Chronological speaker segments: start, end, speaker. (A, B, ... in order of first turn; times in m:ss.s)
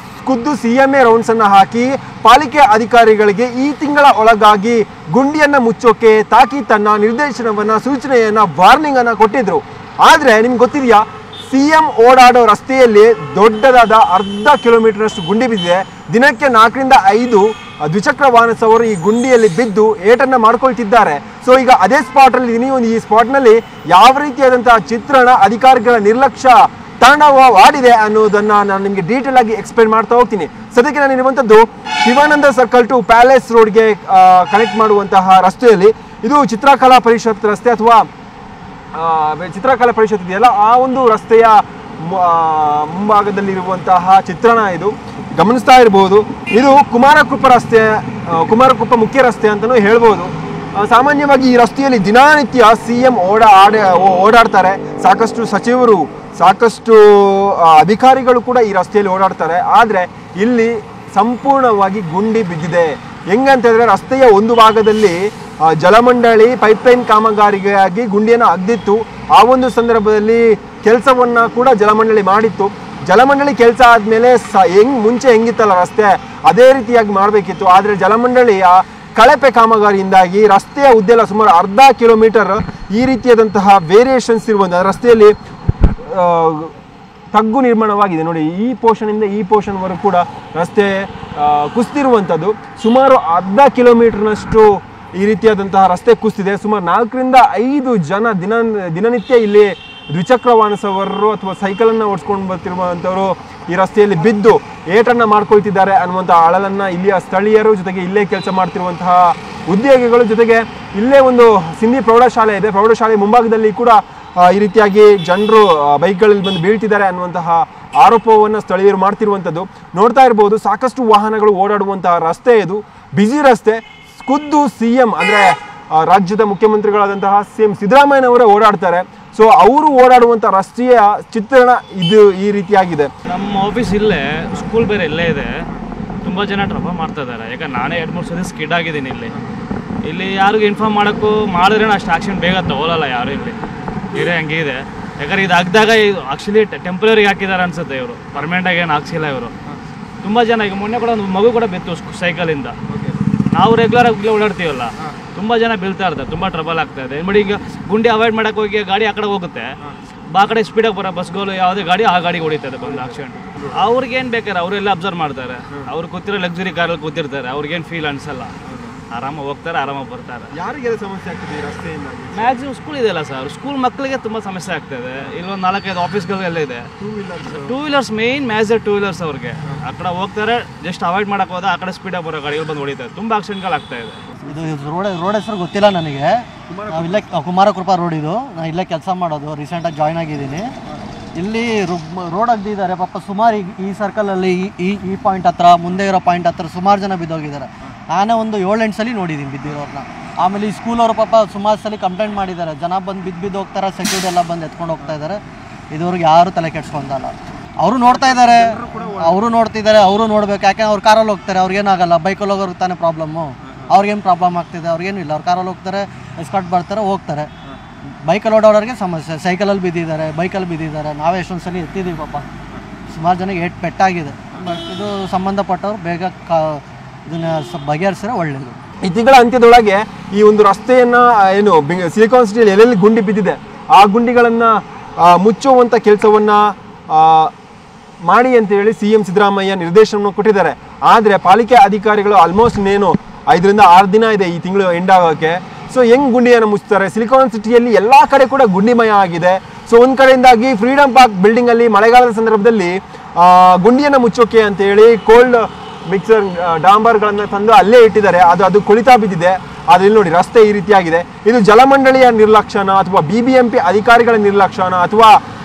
0:00.2-0:38.1 A
0:38.9-1:25.3 A
1:26.0-1:26.7 A
1:27.3-2:13.1 A
2:13.3-2:15.6 B
2:16.2-2:19.3 B
2:20.0-2:23.6 B
2:24.1-2:29.5 B
2:30.2-2:32.8 B
2:32.9-2:33.2 A
2:33.5-2:39.8 B
2:40.3-2:48.5 B
2:42.8-2:43.7 A
2:48.6-2:49.0 A
2:49.1-2:50.5 B
2:50.5-2:52.6 A
2:52.3-2:56.9 B
2:57.0-2:57.7 A
2:57.4-3:04.2 B
3:04.5-3:10.7 C
3:06.7-3:07.2 A
3:11.4-3:25.4 C
3:25.9-3:37.5 C
3:28.6-3:29.3 A
3:38.2-3:42.4 C
3:43.1-3:48.8 C
3:49.0-3:57.5 A
3:58.2-4:25.4 A